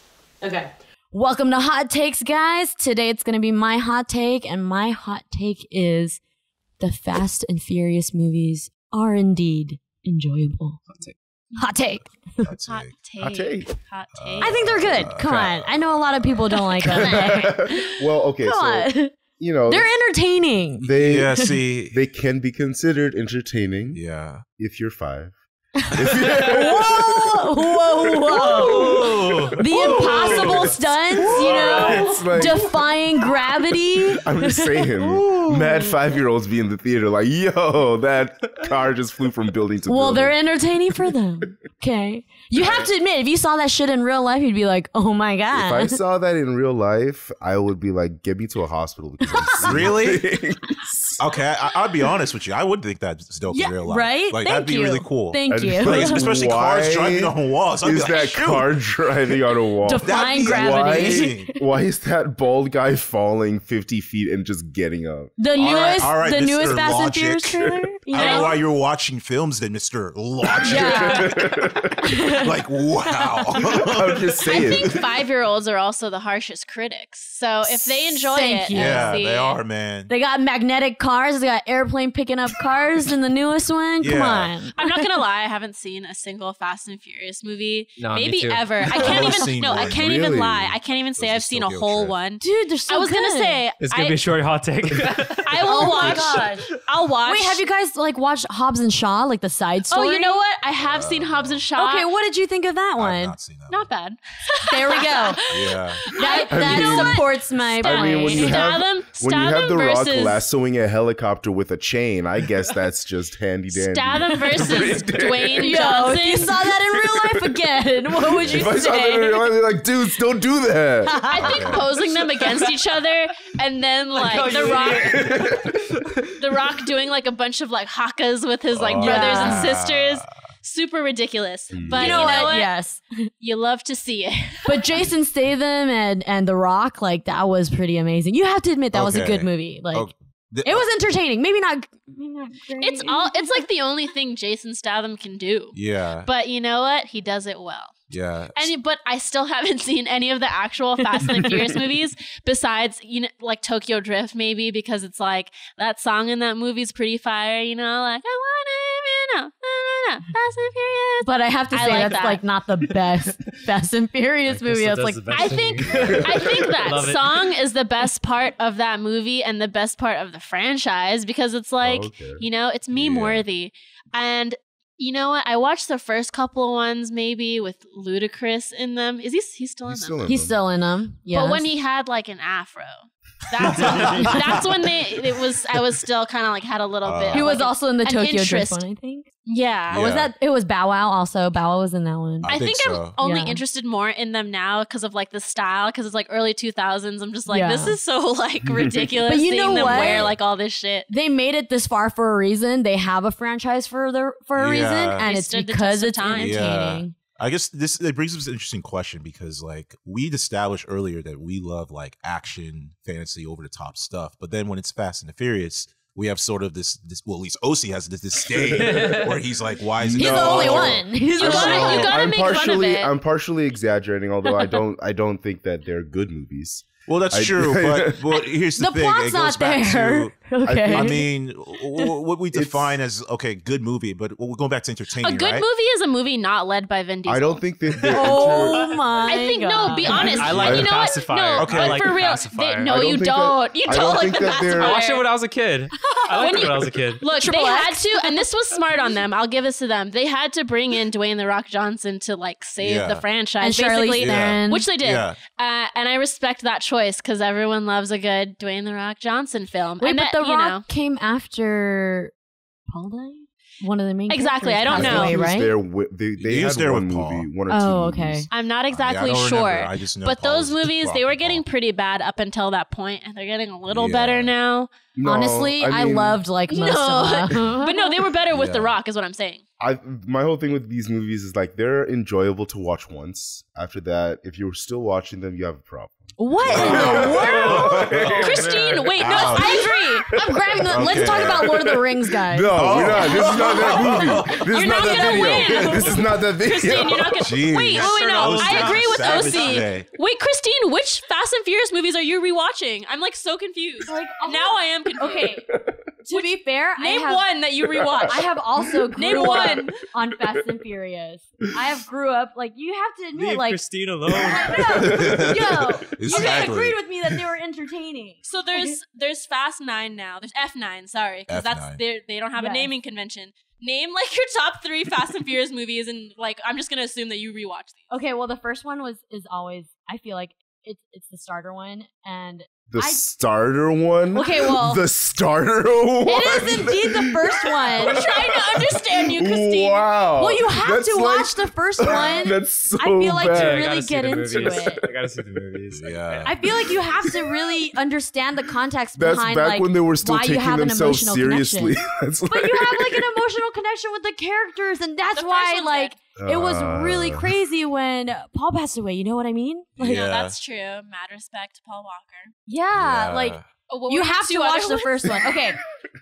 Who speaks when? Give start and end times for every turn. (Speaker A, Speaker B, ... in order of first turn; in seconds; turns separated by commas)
Speaker A: 0.4-6.2, Speaker A: 6.8-10.8, Speaker B: 10.9-11.2, Speaker C: 11.5-11.8, Speaker A: 11.6-12.5, Speaker D: 12.4-13.0, Speaker C: 12.7-14.6, Speaker E: 13.2-13.7, Speaker D: 14.2-16.1, Speaker A: 14.4-17.8, Speaker E: 16.8-19.9, Speaker C: 16.9-17.8, Speaker A: 18.4-21.6, Speaker E: 20.8-21.3, Speaker D: 20.8-22.0, Speaker E: 21.9-24.0, Speaker D: 23.9-24.4, Speaker E: 24.6-25.4, Speaker A: 25.9-35.9, Speaker E: 25.9-27.4, Speaker B: 28.4-30.8, Speaker E: 28.4-28.8, Speaker D: 29.7-30.1, Speaker E: 29.7-30.4, Speaker B: 31.3-32.3, Speaker E: 31.7-32.8, Speaker E: 34.1-40.5, Speaker A: 39.9-46.0, Speaker D: 42.5-42.9, Speaker E: 45.5-51.2, Speaker A: 49.2-49.9, Speaker D: 49.6-50.2, Speaker D: 51.2-58.8, Speaker A: 53.5-56.3, Speaker E: 55.5-65.4, Speaker A: 59.8-61.6, Speaker D: 60.0-61.5, Speaker A: 65.4-68.6, Speaker D: 65.5-71.6, Speaker C: 68.1-68.5, Speaker E: 70.4-72.0, Speaker A: 70.6-71.2, Speaker A: 72.0-73.7, Speaker D: 72.3-74.8, Speaker E: 73.7-74.9, Speaker C: 74.5-79.6, Speaker A: 77.6-79.2, Speaker D: 78.7-80.1, Speaker A: 80.1-85.0, Speaker D: 84.0-84.6, Speaker C: 84.8-94.3, Speaker B: 88.0-89.4, Speaker D: 88.9-92.2, Speaker E: 89.7-90.6, Speaker A: 92.4-93.7, Speaker B: 93.8-96.8, Speaker C: 95.4-97.6, Speaker A: 95.6-96.7, Speaker A: 97.2-100.4, Speaker C: 99.9-102.1, Speaker D: 100.8-101.7, Speaker A: 101.7-103.3, Speaker D: 102.9-103.9, Speaker C: 103.7-110.5, Speaker A: 104.6-105.4, Speaker D: 105.5-106.2, Speaker A: 106.1-108.6, Speaker E: 106.4-107.2, Speaker E: 107.8-115.7, Speaker C: 113.7-116.7, Speaker A: 114.2-114.8, Speaker A: 115.5-119.5, Speaker E: 116.9-117.5, Speaker E: 118.2-121.7, Speaker C: 118.5-119.0, Speaker A: 121.0-121.8, Speaker C: 121.3-125.4, Speaker D: 121.4-121.8, Speaker B: 124.1-126.0, Speaker E: 125.0-125.7, Speaker C: 126.4-132.7, Speaker D: 128.7-130.3, Speaker A: 129.0-129.7, Speaker E: 131.7-132.2, Speaker D: 131.9-132.5, Speaker A: 131.9-133.3, Speaker C: 133.4-134.9, Speaker A: 134.7-140.1, Speaker D: 138.9-140.9, Speaker A: 140.6-143.6, Speaker C: 142.8-147.9, Speaker D: 145.7-146.3, Speaker D: 148.1-148.7, Speaker C: 148.5-162.4, Speaker A: 161.2-165.5, Speaker B: 164.4-167.4, Speaker C: 165.3-180.2, Speaker E: 165.9-166.5, Speaker E: 171.8-172.4, Speaker D: 172.9-173.5, Speaker E: 179.8-180.6, Speaker A: 180.2-181.7, Speaker C: 181.3-188.8, Speaker D: 187.0-187.5, Speaker A: 187.3-189.3, Speaker C: 189.4-190.1, Speaker A: 189.9-192.5, Speaker D: 189.9-190.3, Speaker D: 192.4-193.2, Speaker C: 192.5-201.1, Speaker A: 193.2-193.6, Speaker A: 197.5-198.0, Speaker A: 199.2-200.4, Speaker D: 200.0-200.3, Speaker A: 201.1-207.2, Speaker D: 204.6-205.3, Speaker C: 205.2-206.9, Speaker D: 206.3-222.1, Speaker E: 218.5-219.3, Speaker B: 218.8-219.4, Speaker E: 220.0-221.0, Speaker A: 220.2-222.1, Speaker C: 221.3-223.1, Speaker E: 222.0-228.4, Speaker D: 227.1-230.3, Speaker A: 228.8-231.3, Speaker E: 230.6-231.2, Speaker D: 230.9-235.7, Speaker E: 232.5-233.0, Speaker C: 235.2-237.6, Speaker E: 237.2-239.0, Speaker B: 238.1-238.8, Speaker A: 238.1-240.2, Speaker C: 239.2-245.3, Speaker B: 239.9-242.9, Speaker E: 240.5-240.9, Speaker D: 241.6-242.0, Speaker E: 242.8-245.0, Speaker B: 244.1-247.2, Speaker A: 246.0-246.7, Speaker C: 246.3-260.8, Speaker A: 247.2-248.4, Speaker D: 252.8-253.3, Speaker A: 253.6-254.9, Speaker D: 254.1-255.4, Speaker A: 260.0-262.3, Speaker A: 262.9-265.8, Speaker C: 264.3-265.4, Speaker E: 264.9-268.5, Speaker D: 266.4-267.5, Speaker A: 267.7-268.5, Speaker C: 268.5-274.9, Speaker D: 268.9-271.6, Speaker D: 273.9-274.5, Speaker E: 275.1-276.4, Speaker A: 275.2-278.2, Speaker C: 276.7-279.6, Speaker D: 278.5-278.9, Speaker E: 279.8-288.6, Speaker A: 286.4-288.1, Speaker D: 286.6-288.3, Speaker B: 286.9-289.2, Speaker C: 288.3-290.3, Speaker D: 289.2-289.8, Speaker A: 289.5-293.4, Speaker E: 289.7-291.9, Speaker D: 290.9-291.7, Speaker E: 292.5-297.5, Speaker D: 292.7-296.1, Speaker C: 294.6-305.6, Speaker D: 297.4-300.1, Speaker A: 304.1-305.6, Speaker A: 306.2-307.5, Speaker C: 306.3-308.4, Speaker A: 308.3-318.9, Speaker C: 309.1-310.0, Speaker B: 313.3-315.2, Speaker E: 314.8-315.8, Speaker D: 315.0-317.0, Speaker C: 318.4-328.1, Speaker D: 321.5-322.0, Speaker A: 322.5-322.9, Speaker A: 328.1-333.3, Speaker E: 332.9-343.9, Speaker A: 334.3-335.0, Speaker A: 336.2-338.2, Speaker C: 338.0-340.1, Speaker A: 340.4-345.1, Speaker B: 343.4-347.2, Speaker D: 345.9-346.5, Speaker A: 346.4-351.9, Speaker E: 347.2-347.7, Speaker E: 349.1-353.3, Speaker A: 352.5-360.2, Speaker C: 355.3-356.1, Speaker E: 356.4-357.5, Speaker D: 360.0-360.6, Speaker C: 360.0-362.5, Speaker A: 362.7-365.8, Speaker D: 362.9-363.7, Speaker C: 363.9-365.3